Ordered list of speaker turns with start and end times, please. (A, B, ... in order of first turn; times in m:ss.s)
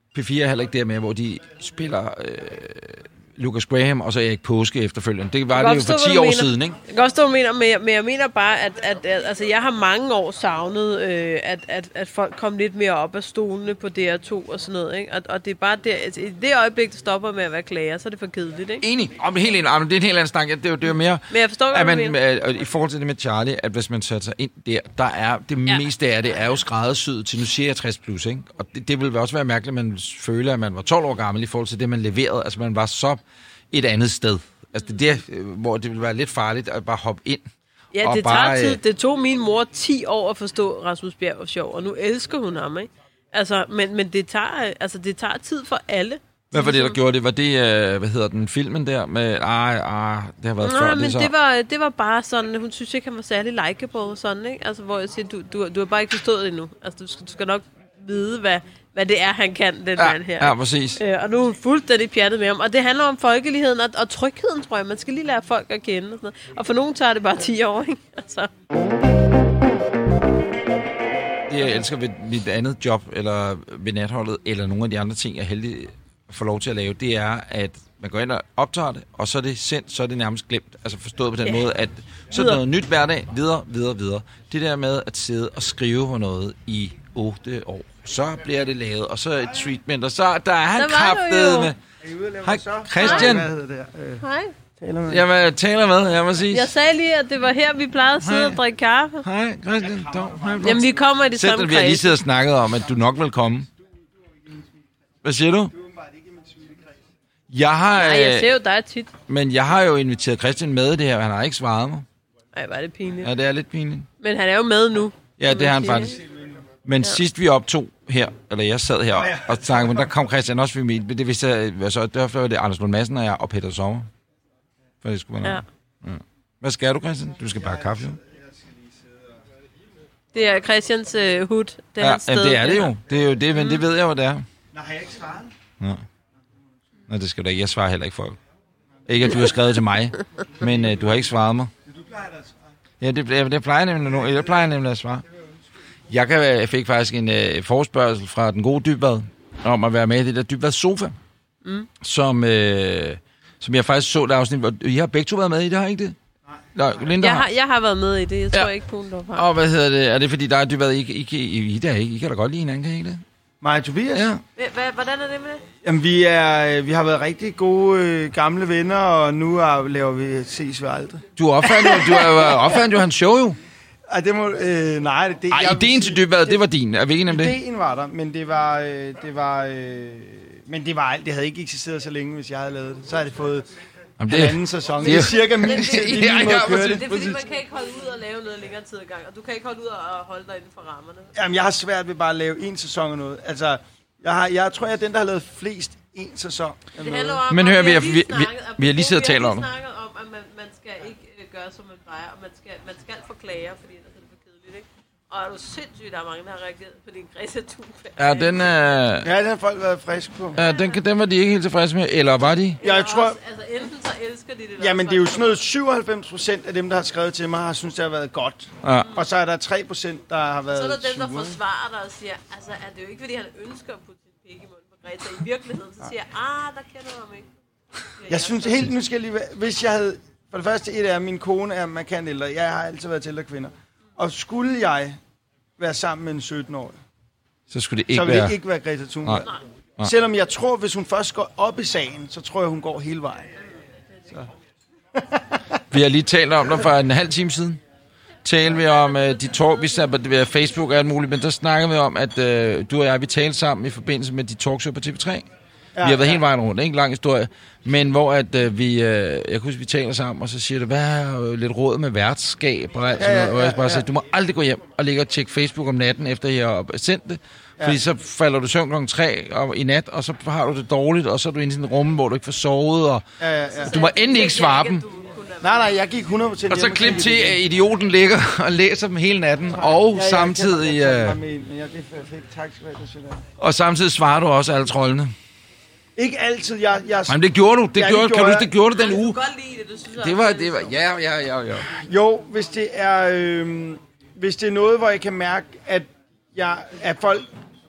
0:00.1-0:06.8 A
0:05.5-0:18.8 B
0:18.8-0:33.2 A
0:21.3-0:22.2 B
0:33.7-0:37.5 A
0:37.9-0:47.0 B
0:38.0-0:38.8 A
0:46.5-0:51.3 A
0:50.6-1:08.5 B
1:00.0-1:01.0 A
1:11.5-1:31.8 A
1:22.3-1:22.6 B
1:30.8-1:31.7 B
1:32.0-1:34.2 C
1:32.4-1:33.5 A
1:33.0-1:33.4 B
1:34.2-1:34.5 B
1:34.8-1:35.2 C
1:35.1-1:36.7 A
1:36.5-1:39.2 B
1:38.2-1:38.6 A
1:39.2-1:43.7 A
1:39.9-1:40.8 C
1:40.6-1:42.2 B
1:45.2-1:45.7 A
1:46.1-1:46.8 C
1:47.5-1:48.5 A
1:47.9-1:49.1 B
1:49.3-1:52.0 A
1:52.5-1:53.3 B
1:53.2-1:54.1 A
1:54.2-1:56.2 B
1:55.4-1:56.2 A
1:56.8-2:04.1 A
2:05.0-2:08.2 A
2:07.6-2:08.8 C
2:10.3-2:12.9 B
2:12.0-2:14.4 A
2:13.6-2:13.8 B
2:14.7-2:15.5 C
2:17.1-2:18.4 A
2:19.1-2:21.7 A
2:21.9-2:22.5 C
2:23.0-2:25.2 A
2:26.1-2:31.1 A
2:31.6-2:31.9 B
2:32.0-2:36.2 A
2:36.7-2:37.5 A
2:37.2-2:39.5 B
2:39.3-2:43.2 A
2:43.6-2:44.3 C
2:44.1-2:44.4 A
2:44.6-2:45.6 B
2:45.8-2:51.2 C
2:51.4-2:53.6 A
2:51.8-2:52.8 C
2:51.8-2:52.4 B
2:54.1-2:56.6 C
2:55.5-2:57.5 A
2:57.3-3:03.6 C
3:04.2-3:07.4 A
3:04.3-3:07.1 C
3:05.0-3:11.3 B
3:11.3-3:17.4 C
3:17.0-3:28.6 B
3:17.5-3:19.7 A
3:28.2-3:29.3 A
3:29.2-3:30.6 C
3:30.5-3:32.8 A
3:30.6-3:31.0 B
3:32.8-3:35.6 B
3:32.8-3:33.4 C
3:34.8-3:41.6 C
3:38.8-3:39.1 A
3:40.7-3:47.5 B
3:48.2-3:48.8 B
3:48.2-3:55.2 C
3:55.8-3:57.0 C
3:57.7-3:58.5 A
3:58.1-4:03.5 C
4:05.1-4:05.8 C
4:05.9-4:07.8 A
4:08.4-4:15.4 A
4:16.0-4:16.4 C
4:16.0-4:33.2 A
4:23.2-4:24.0 C
4:33.4-4:34.0 C
4:33.8-4:35.9 B
4:33.8-4:35.0 A
4:35.6-4:37.6 C
4:36.7-4:41.4 A
4:39.8-4:43.4 C
4:43.6-4:45.3 A
4:46.2-4:47.4 C
4:47.3-4:49.4 A
4:47.9-4:48.7 C
4:48.9-4:50.9 B
4:50.2-4:51.9 A
4:51.9-4:57.5 C